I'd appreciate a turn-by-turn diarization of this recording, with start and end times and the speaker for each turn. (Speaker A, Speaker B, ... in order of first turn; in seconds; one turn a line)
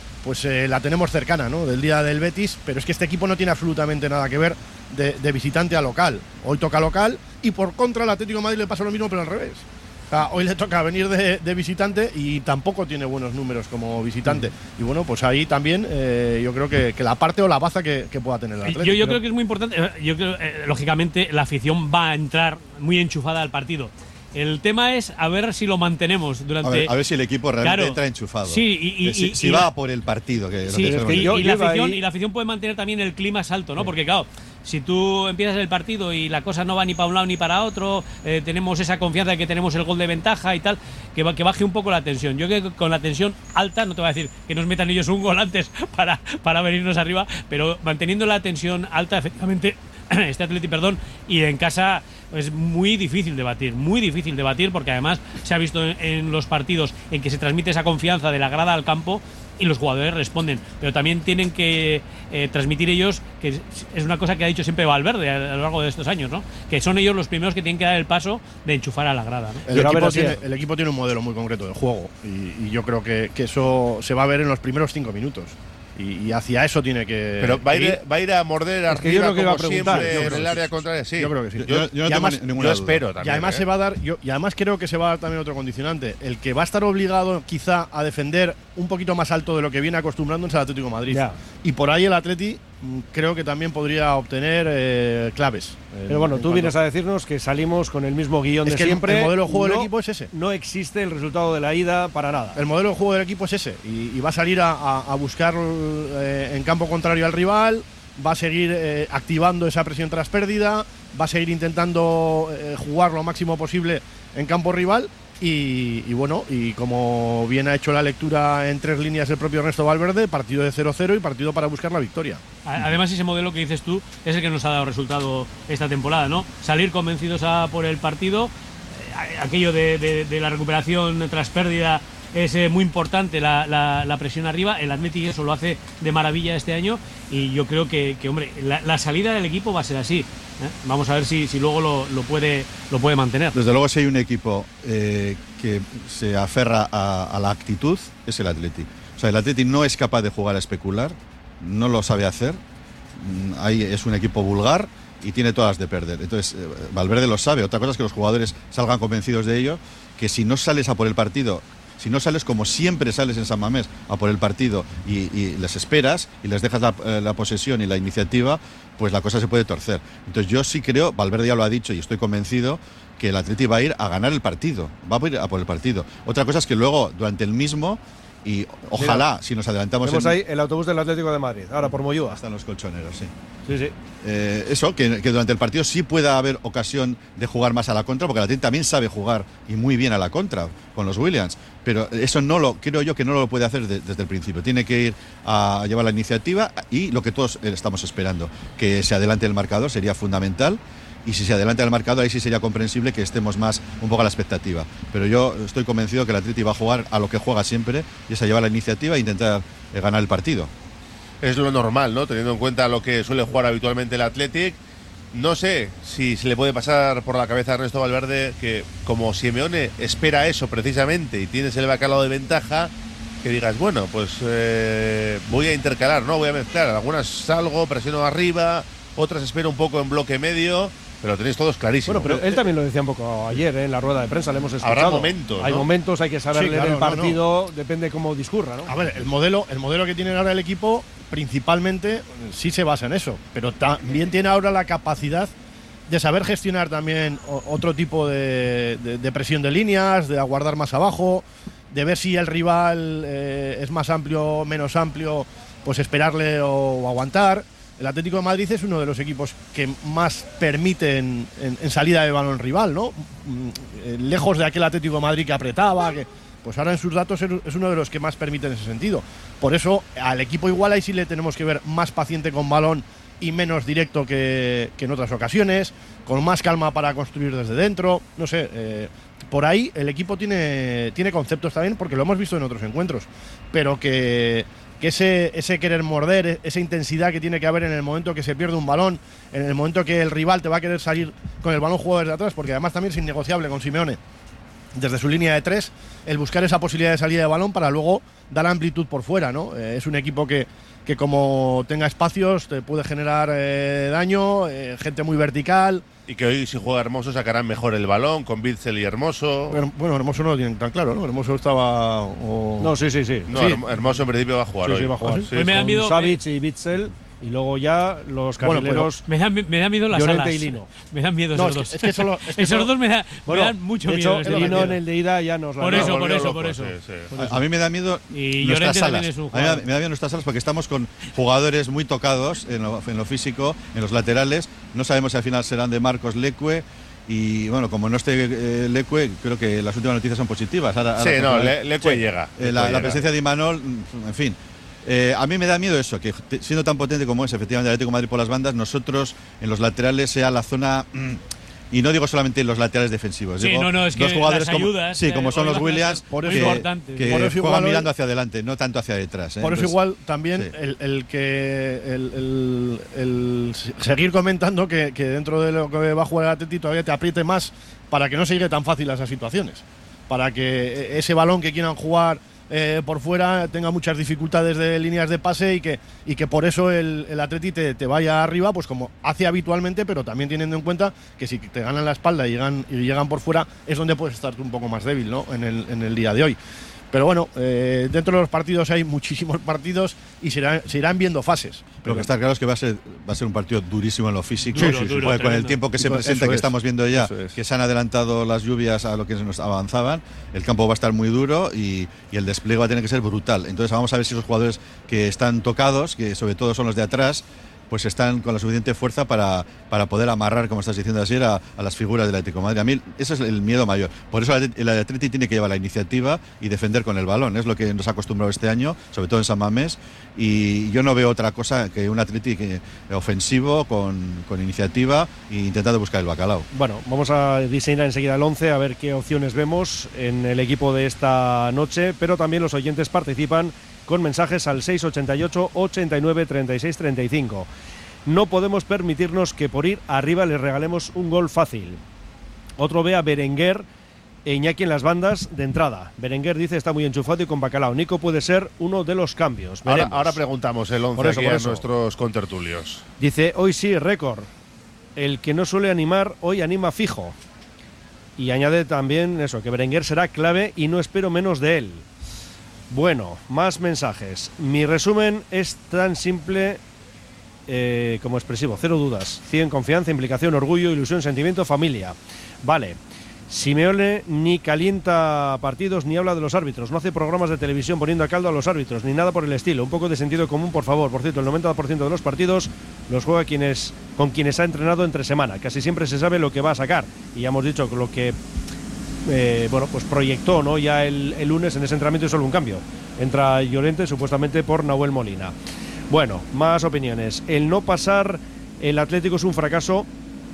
Speaker A: 0.2-19.2
Speaker B: 18.6-26.9
Speaker C: 26.6-31.4
Speaker B: 27.6-29.7
Speaker B: 30.7-69.6
Speaker D: 30.8-32.0
Speaker A: 69.7-78.0
Speaker D: 69.7-70.4
Speaker E: 77.4-81.9
Speaker D: 78.9-80.7
Speaker A: 79.8-80.6
Speaker A: 81.2-82.6
Speaker C: 81.6-83.0
Speaker E: 82.5-83.6
Speaker A: 83.2-96.7
Speaker D: 91.1-91.4
Speaker D: 96.1-102.6
Speaker A: 98.6-100.3
Speaker A: 102.5-122.4
Speaker B: 122.6-143.6
Speaker C: 143.5-152.6
Speaker C: 153.2-180.4
Speaker D: 179.0-179.2
Speaker D: 180.0-182.4
Speaker C: 182.3-183.3
Speaker D: 183.7-183.9
Speaker C: 184.2-210.7
Speaker E: 211.4-214.8
Speaker E: 215.3-222.9
Speaker E: 223.4-232.6
Speaker D: 232.1-238.9
Speaker E: 234.8-235.8
Speaker A: 236.5-237.4
Speaker A: 238.8-245.5
Speaker A: 246.1-294.2
Speaker A: 294.9-306.0
Speaker E: 306.3-309.8
Speaker A: 309.7-312.9
Speaker D: 312.8-314.1
Speaker E: 313.5-315.8
Speaker D: 314.8-319.2
Speaker B: 315.5-316.4
Speaker A: 318.6-319.1
Speaker B: 319.3-325.0
Speaker D: 320.1-320.9
Speaker A: 321.5-322.9
Speaker D: 323.4-326.2
Speaker A: 324.4-325.0
Speaker B: 325.8-326.9
Speaker E: 325.9-327.3
Speaker D: 327.3-327.6
Speaker C: 327.4-360.0
Speaker B: 328.3-329.8
Speaker E: 341.2-343.2
Speaker B: 353.6-357.5
Speaker A: 356.3-358.1
Speaker A: 359.6-386.6
Speaker A: 387.1-392.3
Speaker C: 392.0-426.7
Speaker B: 394.7-395.8
Speaker A: 394.8-395.3
Speaker A: 396.0-397.5
Speaker D: 426.7-437.7
Speaker D: 438.2-442.0
Speaker D: 442.8-443.9
Speaker D: 444.4-450.4
Speaker E: 449.8-453.0
Speaker D: 451.1-451.9
Speaker D: 453.2-454.5
Speaker D: 455.1-457.4
Speaker D: 458.4-462.0
Speaker D: 462.9-466.8
Speaker D: 467.7-473.0
Speaker D: 473.5-488.4
Speaker D: 489.2-495.5
Speaker D: 496.1-500.1